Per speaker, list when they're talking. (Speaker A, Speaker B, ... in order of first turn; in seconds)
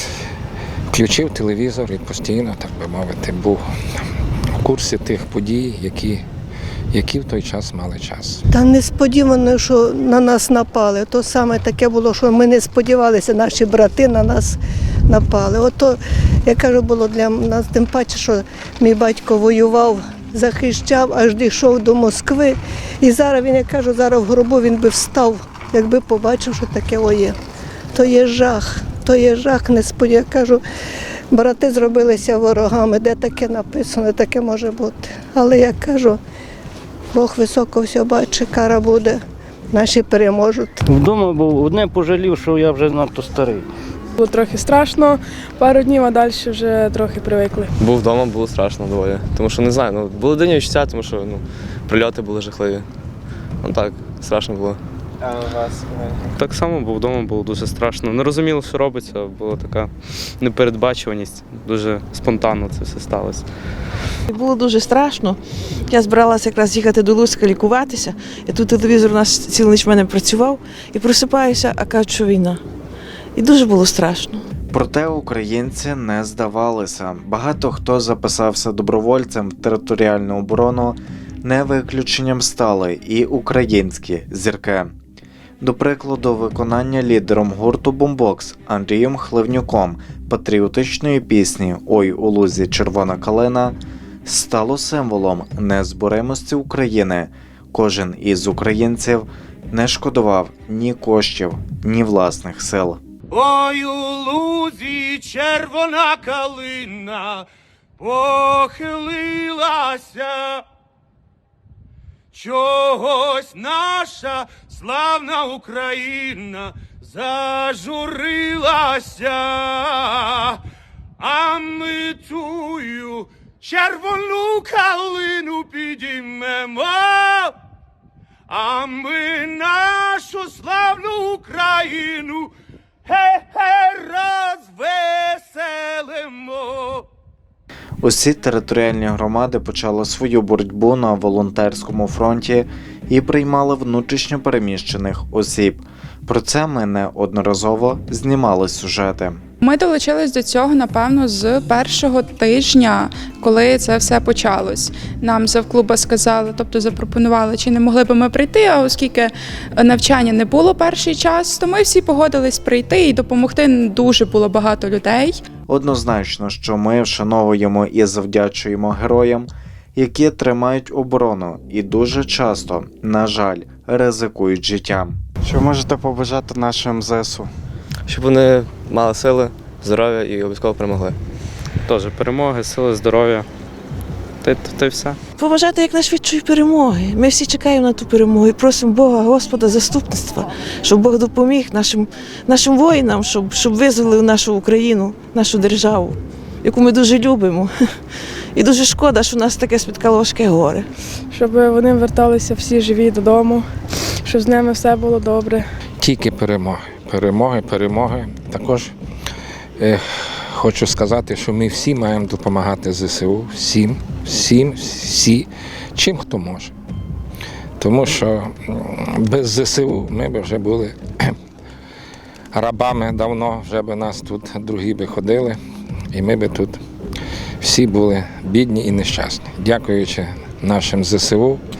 Speaker A: 0.9-3.6, 4.6-6.2, 6.9-8.4, 206.0-208.9, 209.8-216.7, 217.8-221.3, 222.5-225.6, 226.1-226.8, 227.6-231.6
Speaker B: 8.5-27.3, 27.9-30.6, 31.3-36.2, 37.1-39.2, 39.7-40.8
Speaker C: 40.9-43.6
Speaker D: 44.2-47.7, 201.3-203.6, 204.2-205.6
Speaker E: 47.8-52.9, 53.6-54.8, 178.1-181.2
Speaker F: 56.3-63.4, 181.8-183.5, 184.4-185.2
Speaker G: 64.3-72.6, 73.3-74.4, 185.4-197.7, 198.5-200.9
Speaker H: 74.7-84.9, 85.6-103.0, 138.0-149.4, 165.7-177.5
Speaker I: 103.3-107.5, 108.0-110.6, 112.3-120.6, 121.2-127.5, 128.5-132.5, 133.1-137.0
Speaker J: 149.6-165.4